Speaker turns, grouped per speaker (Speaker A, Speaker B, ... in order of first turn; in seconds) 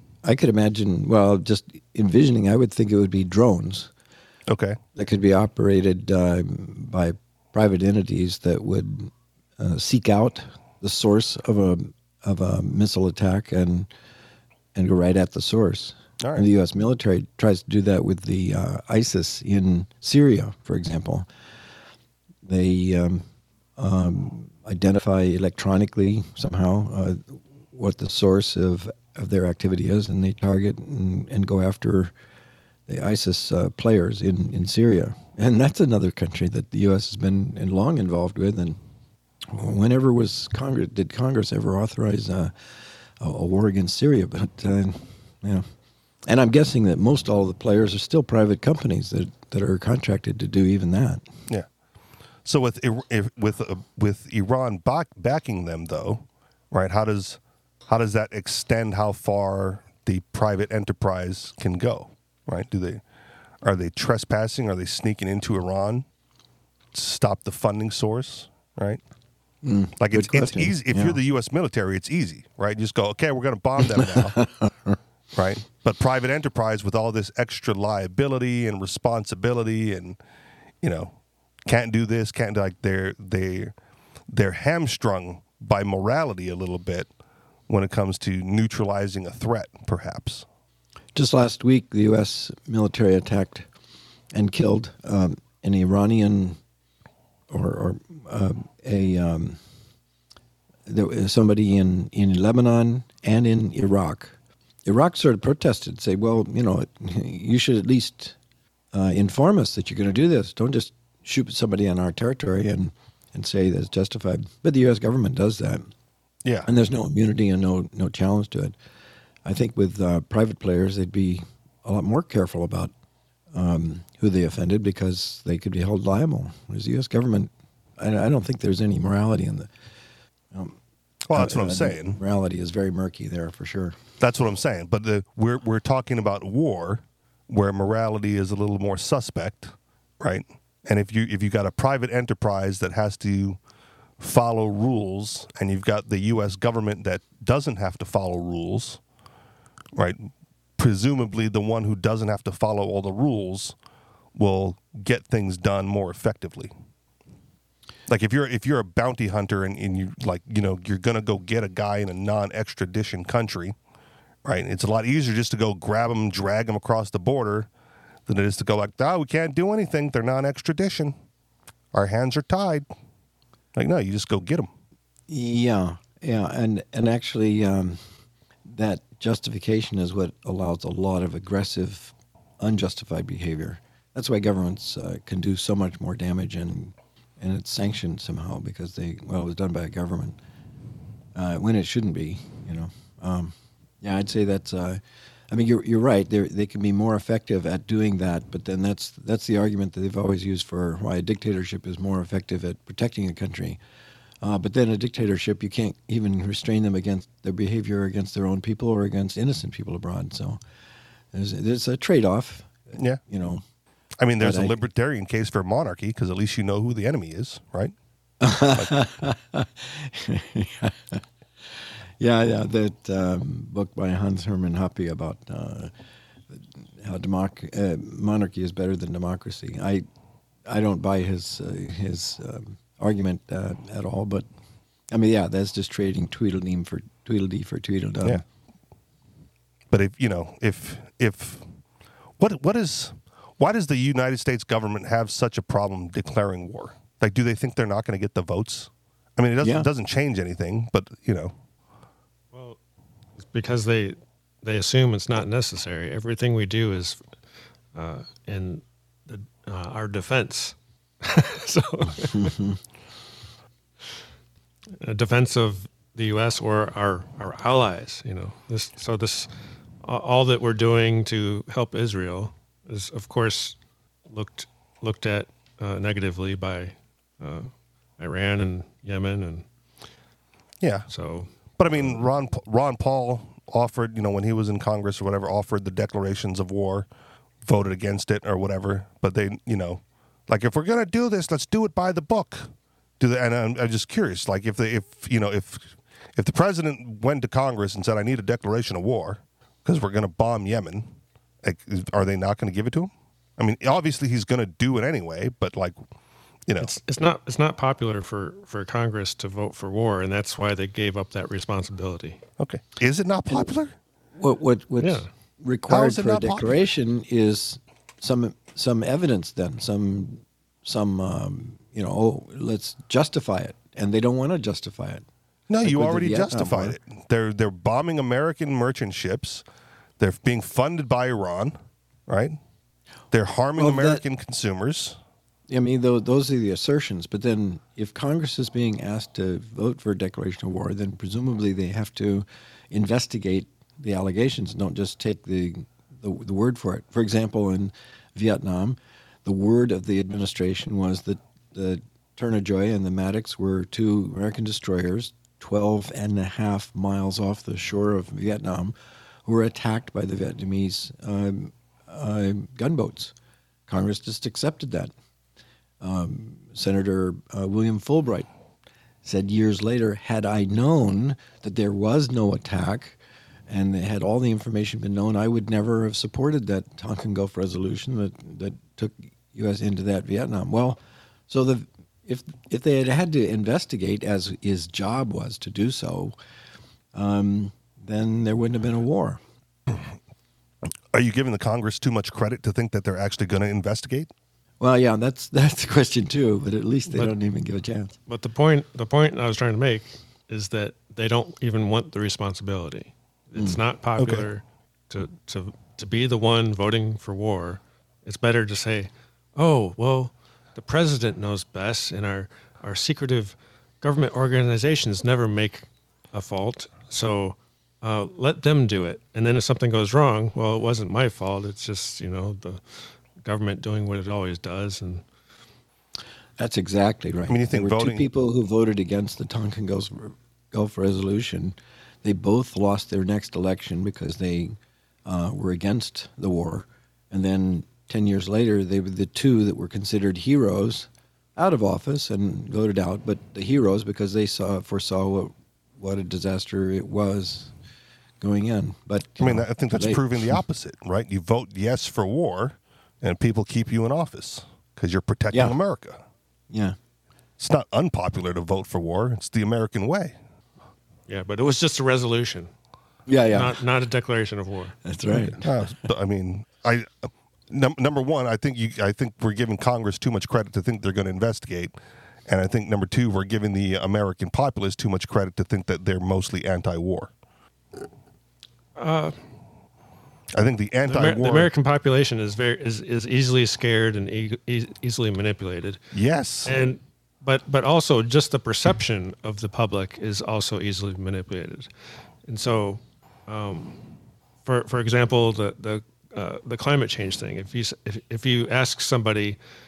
Speaker A: 0.2-3.9, 4.9-13.9, 14.7-21.3, 22.4-23.2, 23.8-32.1, 32.9-38.8, 39.5-45.7, 46.3-51.2, 69.6-71.2, 73.9-75.0, 91.1-93.7, 94.3-96.6, 97.5-99.6, 100.8-108.3, 108.9-115.9, 116.7-118.7, 119.4-122.9, 123.5-129.7, 130.5-130.8, 131.3-133.9, 175.3-178.0, 178.7-190.4, 191.3-203.8, 204.4-210.6, 211.3-213.6, 214.4-214.8, 218.4-225.9, 226.5-230.1, 230.7-234.5, 235.1-238.4, 249.6-249.9, 262.4-262.7, 314.4-325.2, 325.8-327.0, 333.8-334.2, 335.7-358.9, 359.4-363.3, 363.9-365.1, 366.0-368.5, 369.2-373.2, 373.7-386.3, 387.1-389.4, 394.8-398.1, 426.6-447.7, 448.4-450.6, 455.5-455.8, 456.7-456.9, 463.3-463.8, 465.0-465.8
Speaker B: 4.5-4.8, 16.2-16.5, 52.4-63.0, 63.6-66.0, 66.9-69.0, 70.0-74.4, 75.3-80.2, 80.8-81.1, 81.7-83.7, 84.3-87.1, 87.7-90.4, 116.4-116.7, 131.3-132.2, 134.2-143.6, 144.2-149.0, 149.9-153.8, 154.3-156.7, 158.1-163.8, 164.4-167.7, 168.3-171.1, 171.9-172.8, 173.7-174.7, 212.9-213.2, 214.2-217.9, 239.9-241.7, 242.4-251.5, 280.8-281.1, 281.8-287.1, 287.6-301.1, 301.6-305.9, 312.6-313.9, 315.9-316.8, 325.7-329.6, 330.2-331.8, 332.3-332.6, 333.3-335.2, 391.1-394.3, 404.2-404.5, 427.5-428.3, 449.4-456.2, 457.6-460.3, 465.5-471.9, 472.5-477.3, 480.5-481.7, 486.1-486.7
Speaker C: 252.5-252.8, 253.4-257.2, 257.9-262.6, 265.0-269.5, 270.0-273.7, 274.3-279.6, 281.1-281.5, 306.8-312.4, 315.0-315.2, 398.3-425.2, 461.3-462.7, 463.5-465.0, 478.9-479.4, 481.1-486.0, 486.6-491.9, 492.4-494.0, 494.6-499.6